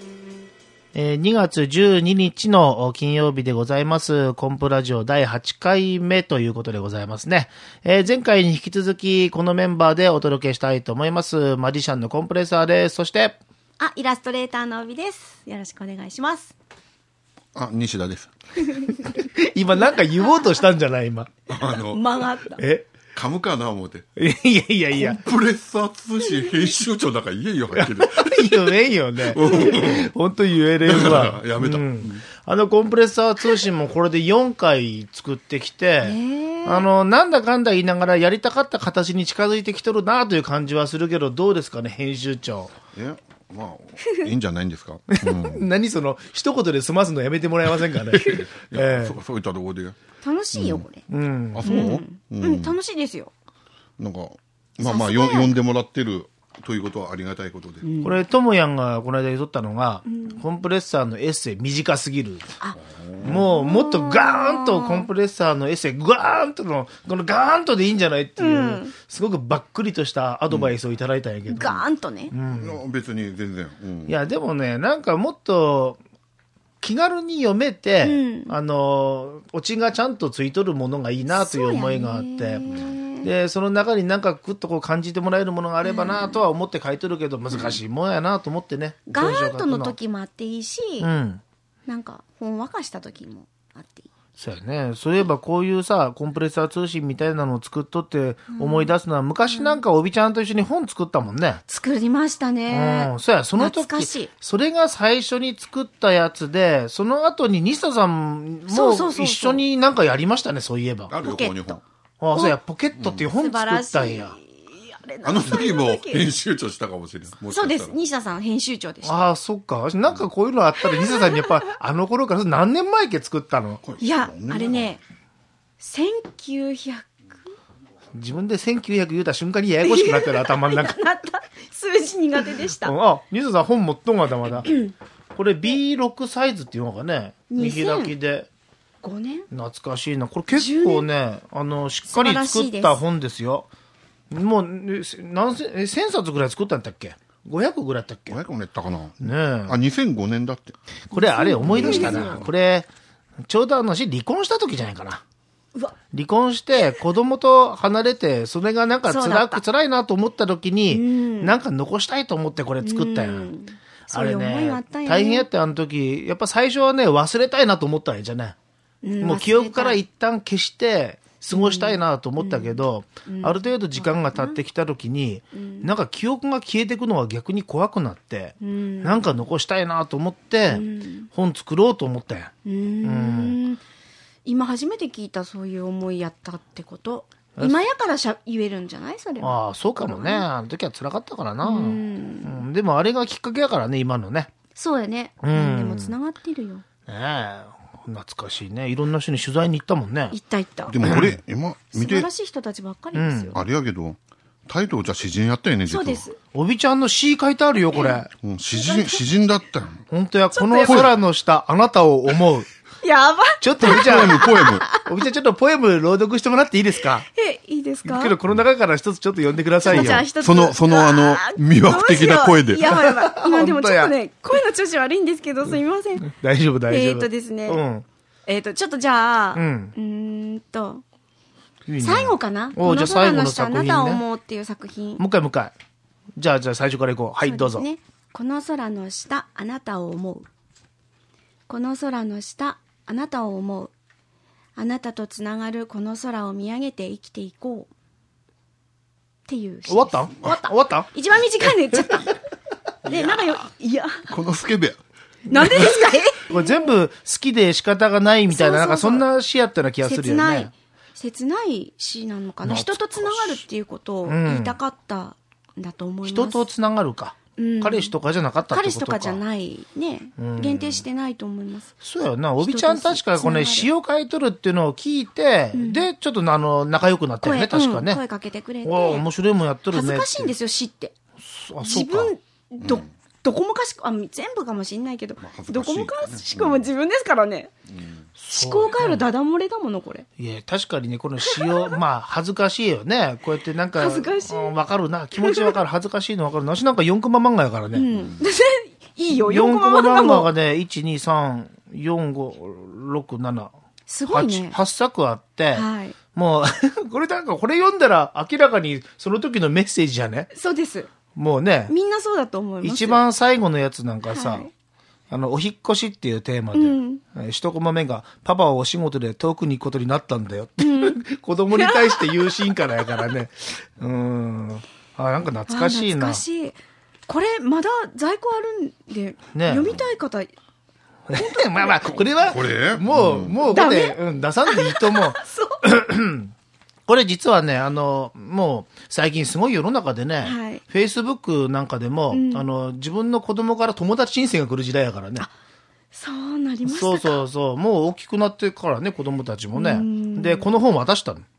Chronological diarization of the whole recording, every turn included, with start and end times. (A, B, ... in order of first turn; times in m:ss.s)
0:00.9-0:13.4 A
0:13.8-0:16.5 B
0:17.5-0:18.3 C
0:19.0-0:21.3 A
0:21.5-0:22.3 C
0:21.6-0:22.6 B
0:22.6-0:22.9 A
0:23.1-0:24.1 C
0:24.2-0:25.2 A
0:24.9-0:30.1 C
0:26.2-0:26.7 B
0:27.7-0:42.7 A
0:30.8-0:32.2 C
0:36.0-0:36.9 B
0:42.9-0:45.6 C
0:45.1-0:49.2 A
0:48.1-0:50.0 C
0:50.2-0:51.0 B
0:50.5-0:50.8 C
0:51.1-0:51.9 A
0:51.5-0:52.7 C
0:51.6-0:53.3 B
0:54.0-0:57.9 C
0:54.8-0:55.5 B
0:57.8-0:58.2 B
0:58.0-1:02.5 A
1:00.1-1:00.4 B
1:02.6-1:05.1 B
1:02.9-1:03.4 C
1:03.2-1:12.8 A
1:08.4-1:08.9 B
1:10.5-1:10.7 C
1:11.5-1:12.3 B
1:12.5-1:14.2 C
1:14.1-1:16.0 A
1:16.8-1:30.0 A
1:18.0-1:18.5 B
1:21.3-1:23.3 B
1:25.8-1:26.4 B
1:29.1-1:31.1 B
1:31.0-1:31.4 A
1:31.9-1:34.0 B
1:34.4-1:41.6 A
1:38.5-1:38.9 B
1:39.5-1:39.8 B
1:41.7-1:44.3 B
1:42.7-1:51.2 A
1:48.7-1:49.6 B
1:51.1-1:51.8 C
1:51.2-1:51.8 B
1:52.2-1:54.4 A
1:52.3-1:52.6 B
1:53.0-1:53.3 C
1:53.3-1:56.3 B
1:55.2-1:58.0 C
1:57.5-1:59.2 B
1:59.0-2:03.8 A
2:00.8-2:01.7 B
2:03.8-2:05.0 C
2:04.0-2:05.0 B
2:05.8-2:07.2 B
2:08.1-2:11.0 A
2:09.8-2:12.9 B
2:12.6-2:14.8 A
2:14.7-2:14.9 B
2:15.3-2:18.5 A
2:17.5-2:18.1 B
2:19.0-2:19.5 B
2:19.5-2:23.7 A
2:20.5-2:21.1 B
2:22.1-2:23.0 B
2:24.3-2:28.4 A
2:28.3-2:30.8 C
2:29.2-2:29.8 A
2:31.1-2:32.9 A
2:31.1-2:32.4 B
2:31.6-2:32.5 C
2:33.4-2:35.2 A
2:36.1-2:43.5 A
2:39.0-2:39.6 B
2:40.9-2:41.6 B
2:42.8-2:45.5 B
2:44.1-2:48.6 A
2:49.0-2:50.0 B
2:49.2-3:02.5 A
2:51.5-2:54.6 B
2:55.5-2:55.9 B
2:58.6-2:59.3 B
3:00.7-3:01.3 B
3:02.6-3:03.8 B
3:03.0-3:03.6 A
3:04.4-3:10.4 B
3:09.4-3:14.5 A
3:11.6-3:12.6 B
3:14.7-3:16.8 B
3:15.4-3:16.1 A
3:17.0-3:20.4 A
3:20.3-3:21.3 B
3:20.9-3:22.3 C
3:21.0-3:21.3 A
3:21.9-3:23.6 B
3:23.1-3:23.6 A
3:23.5-3:26.2 C
3:25.8-3:26.4 B
3:26.5-3:28.3 A
3:27.9-3:28.2 B
3:28.4-3:30.0 C
3:28.7-3:29.2 B
3:30.1-3:32.7 A
3:30.5-3:31.1 B
3:30.8-3:31.1 C
3:33.0-3:35.1 B
3:33.6-3:37.2 A
3:33.8-3:34.9 C
3:37.3-3:38.3 B
3:38.0-3:40.2 A
3:39.8-3:46.3 B
3:39.9-3:42.9 C
3:42.9-3:44.1 A
3:46.2-3:48.0 A
3:46.9-3:47.8 B
3:48.5-3:51.0 B
3:49.5-3:49.9 A
3:51.8-3:54.2 A
3:52.0-3:55.2 B
3:55.2-3:55.7 A
3:56.4-3:57.8 A
3:57.4-4:00.4 B
4:01.7-4:03.9 B
4:04.8-4:07.9 B
4:09.5-4:12.3 B
4:09.9-4:11.1 A
4:13.0-4:13.6 C
4:13.0-4:14.3 B
4:14.3-4:15.0 C
4:15.5-4:16.9 B
4:15.5-4:16.0 C
4:16.5-4:20.7 A
4:18.5-4:19.2 B
4:20.0-4:26.6 B
4:22.6-4:23.6 A
4:24.2-4:24.8 A
4:26.2-4:29.4 A
4:27.6-4:28.1 B
4:28.7-4:31.9 B
4:30.4-4:31.0 A
4:32.0-4:38.2 A
4:32.6-4:33.9 B
4:35.7-4:36.1 B
4:37.4-4:39.2 B
4:38.8-4:40.5 A
4:39.9-4:41.1 B
4:41.4-4:42.3 A
4:41.8-4:47.7 B
4:42.8-4:43.1 C
4:45.4-4:46.9 C
4:47.9-4:48.2 C
4:48.4-4:49.3 A
4:48.5-4:50.2 B
4:50.4-4:58.1 A
4:51.4-4:51.9 B
4:53.9-4:54.8 B
4:55.4-4:55.8 B
4:57.9-5:00.5 B
4:58.1-4:58.4 C
4:59.3-5:03.7 A
5:04.1-5:04.8 B
5:04.3-5:10.5 A
5:05.7-5:06.2 B
5:10.5-5:11.1 B
5:11.3-5:11.9 A
5:11.9-5:13.2 B
5:12.8-5:14.7 A
5:14.3-5:14.7 B
5:15.3-5:26.4 A
5:16.7-5:17.2 B
5:20.8-5:21.2 B
5:21.7-5:22.7 B
5:25.7-5:30.5 B
5:29.5-5:30.0 A
5:31.3-5:36.5 A
5:32.1-5:33.6 C
5:33.7-5:35.8 B
5:37.0-5:45.5 A
5:40.4-5:40.8 B
5:42.3-5:42.6 B
5:46.1-5:47.4 B
5:46.8-5:51.4 A
5:49.7-5:50.8 B